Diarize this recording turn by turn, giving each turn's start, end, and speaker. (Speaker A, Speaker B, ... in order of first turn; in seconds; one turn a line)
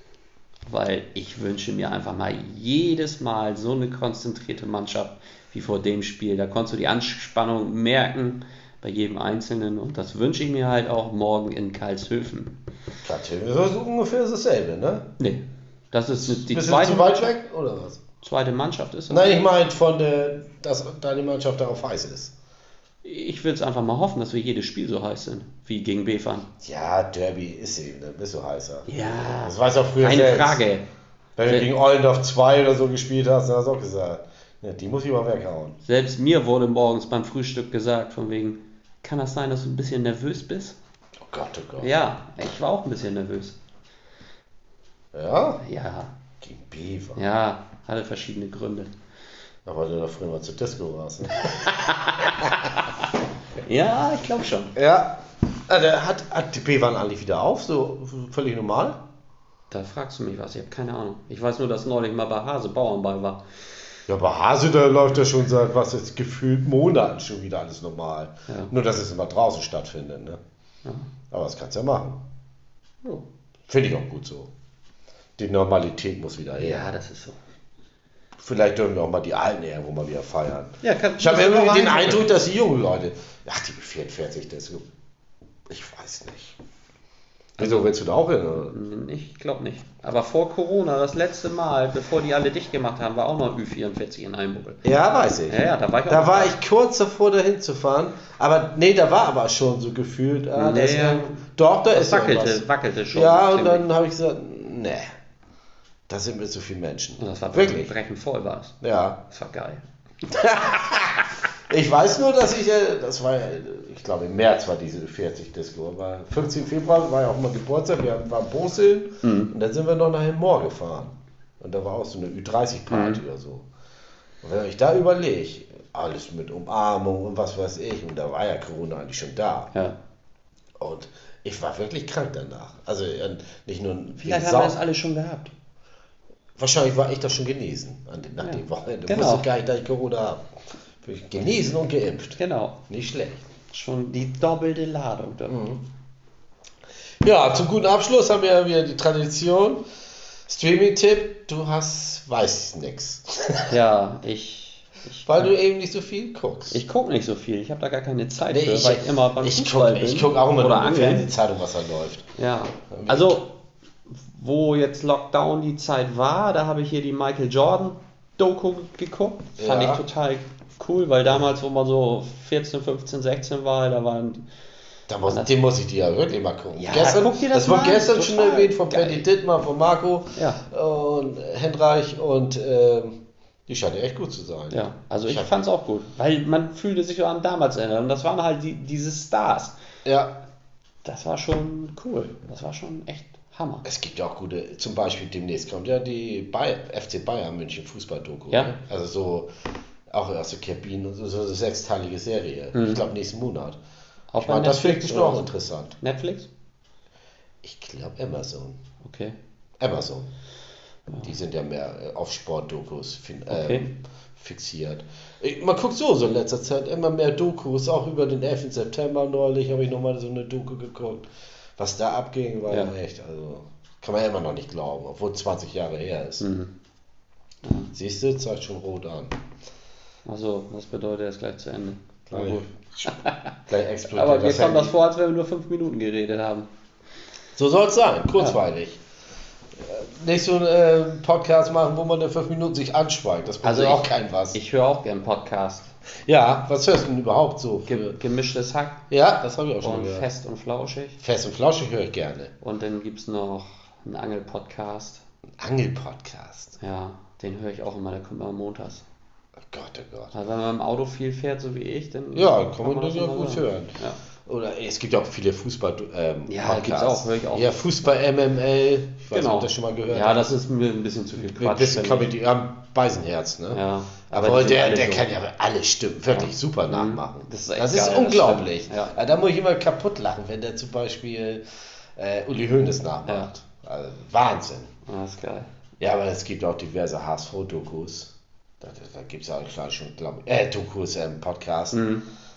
Speaker A: 0.7-12.6
Speaker B: 13.0-15.1
Speaker A: 15.2-17.3
Speaker B: 16.2-18.0
Speaker A: 18.2-19.4
Speaker B: 19.1-22.3
Speaker A: 23.0-26.5
Speaker B: 26.6-30.6
Speaker A: 28.9-30.9
Speaker B: 31.4-35.8
Speaker A: 35.9-40.8
Speaker B: 41.2-42.0
Speaker A: 41.8-43.6
Speaker B: 45.1-45.6
Speaker A: 45.6-46.1
Speaker B: 46.4-47.2
Speaker A: 47.2-48.9
Speaker B: 49.7-52.7
Speaker A: 51.3-53.0
Speaker A: 53.6-54.8
Speaker B: 54.8-59.0
Speaker A: 59.7-63.4
Speaker B: 64.1-70.4
Speaker B: 71.3-72.2
Speaker B: 73.7-74.5
Speaker B: 75.4-76.9
Speaker A: 76.6-77.4
Speaker B: 78.4-84.9
Speaker A: 80.8-82.3
Speaker B: 85.7-86.6
Speaker B: 87.6-88.7
Speaker A: 87.6-87.9
Speaker A: 88.7-94.9
Speaker B: 94.8-102.6
Speaker A: 95.5-96.6
Speaker A: 100.6-103.9
Speaker B: 103.1-105.1
Speaker B: 106.1-107.9
Speaker A: 107.2-108.8
Speaker B: 108.8-109.2
Speaker A: 109.3-109.8
Speaker B: 110.3-123.7
Speaker A: 119.2-119.5
Speaker A: 122.9-123.2
Speaker B: 124.4-129.7
Speaker B: 130.8-134.8
Speaker A: 134.2-135.5
Speaker B: 136.6-140.4
Speaker A: 138.4-139.5
Speaker B: 141.0-143.4
Speaker A: 142.4-142.8
Speaker A: 143.7-145.7
Speaker B: 145.5-145.8
Speaker B: 147.2-149.8
Speaker B: 150.5-153.8
Speaker A: 153.7-155.5
Speaker B: 155.3-156.8
Speaker A: 156.7-161.3
Speaker B: 158.5-162.3
Speaker A: 162.4-163.6
Speaker B: 162.9-163.4
Speaker A: 164.1-174.4
Speaker B: 169.6-170.0
Speaker B: 175.1-185.5
Speaker A: 176.8-179.3
Speaker A: 180.4-180.6
Speaker A: 184.7-189.7
Speaker B: 190.1-190.3
Speaker A: 191.1-193.8
Speaker B: 193.8-199.5
Speaker B: 200.1-203.8
Speaker A: 202.7-203.0
Speaker A: 204.3-206.5
Speaker B: 204.4-206.0
Speaker B: 207.6-208.8
Speaker A: 209.0-209.4
Speaker B: 209.8-210.3
Speaker B: 211.2-226.4
Speaker A: 213.5-213.9
Speaker A: 226.4-226.7
Speaker A: 227.6-227.9
Speaker B: 227.9-229.3
Speaker A: 230.3-233.5
Speaker B: 232.3-234.9
Speaker A: 234.1-236.7
Speaker B: 237.6-239.0
Speaker B: 239.8-244.6
Speaker A: 243.6-245.9
Speaker B: 246.2-248.1
Speaker A: 247.9-249.0
Speaker B: 249.1-250.3
Speaker A: 249.8-251.2
Speaker B: 251.2-252.5
Speaker A: 252.6-255.2
Speaker B: 255.6-256.8
Speaker A: 256.8-259.0
Speaker B: 259.6-260.3
Speaker A: 260.3-264.2
Speaker B: 262.4-270.6
Speaker A: 266.5-267.7
Speaker A: 269.3-272.3
Speaker B: 271.6-281.6
Speaker A: 273.7-275.3
Speaker A: 276.3-279.1
Speaker B: 282.2-284.9
Speaker A: 285.1-285.7
Speaker B: 286.0-292.0
Speaker A: 291.9-292.3